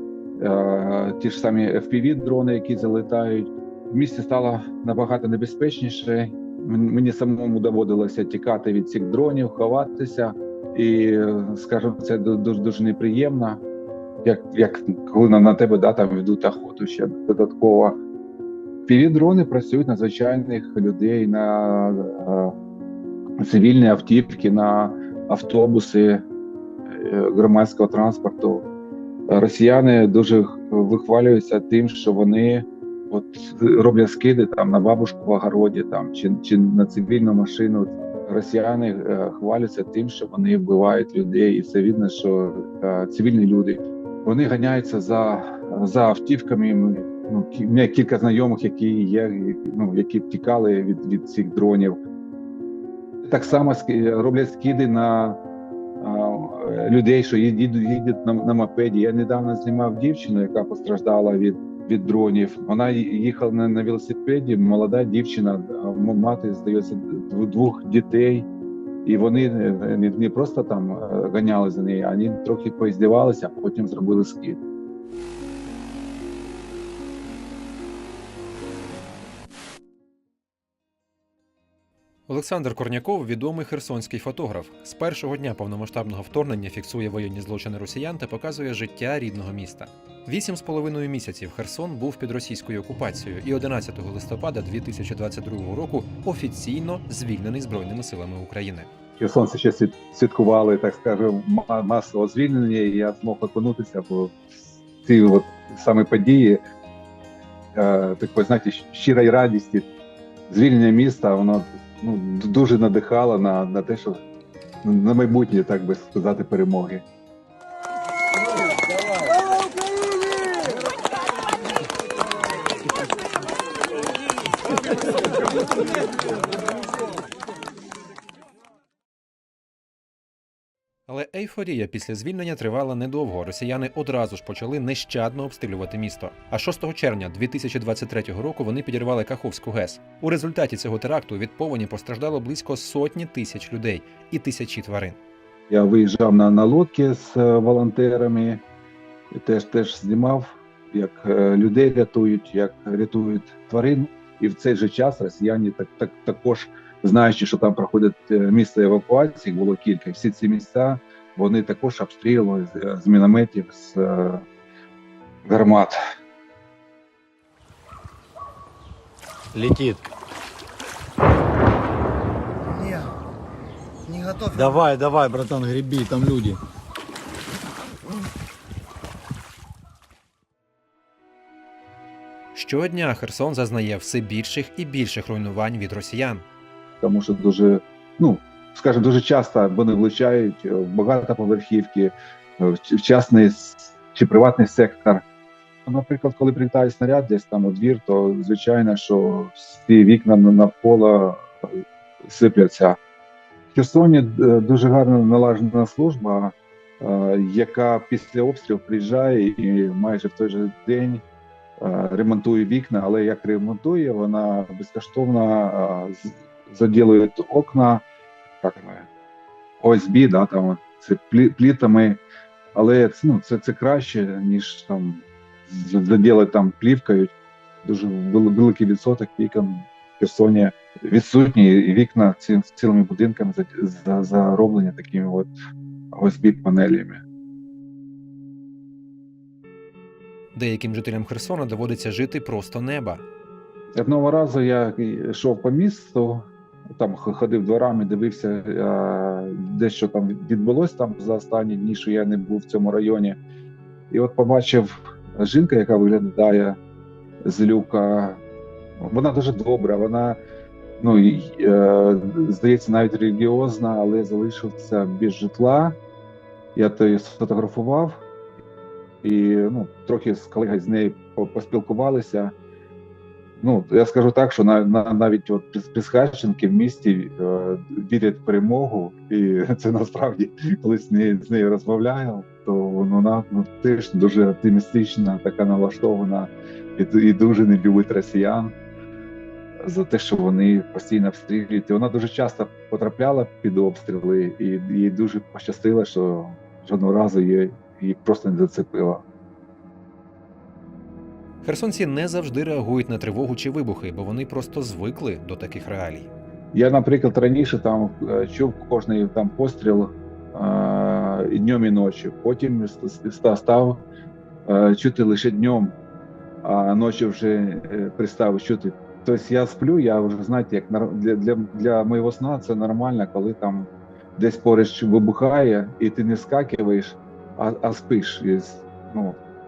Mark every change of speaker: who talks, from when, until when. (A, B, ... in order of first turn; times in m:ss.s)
0:00.4-0:13.6 A
0:14.2-0:18.0 A
0:18.9-0:22.5 A
0:23.4-0:26.2 A
0:26.9-0:28.7 A
0:29.3-0:52.0 A
0:53.2-0:55.4 A
0:56.0-1:08.5 A
1:09.0-1:14.6 A
1:22.3-1:38.9 B
1:39.2-1:46.6 A
1:47.8-1:49.9 A
1:50.5-1:54.2 A
1:54.8-1:57.0 A
2:11.1-2:25.2 B
2:25.7-2:28.6 A
2:29.3-2:44.4 A
2:45.5-2:46.0 A
2:49.5-2:50.0 C
2:54.5-2:56.6 C
3:02.6-3:06.4 B
3:07.0-3:15.2 A
3:15.9-3:23.0 A
3:23.7-3:31.2 A
3:31.8-3:38.0 A
3:38.6-3:39.1 A
3:39.8-3:42.2 A
3:42.8-3:47.3 A
3:47.8-3:55.5 A
3:56.1-3:57.2 A
4:00.6-4:03.2 B
4:04.0-4:13.4 A
4:14.1-4:16.8 A
4:17.4-4:18.4 A
4:19.0-4:20.4 A
4:21.0-4:26.0 A
4:26.8-4:28.2 A
4:29.2-4:32.5 A
4:33.6-4:48.7 A
4:49.8-4:59.2 A
5:01.6-5:06.3 B
5:06.7-5:14.0 A
5:14.7-5:16.0 A
5:16.6-5:29.4 A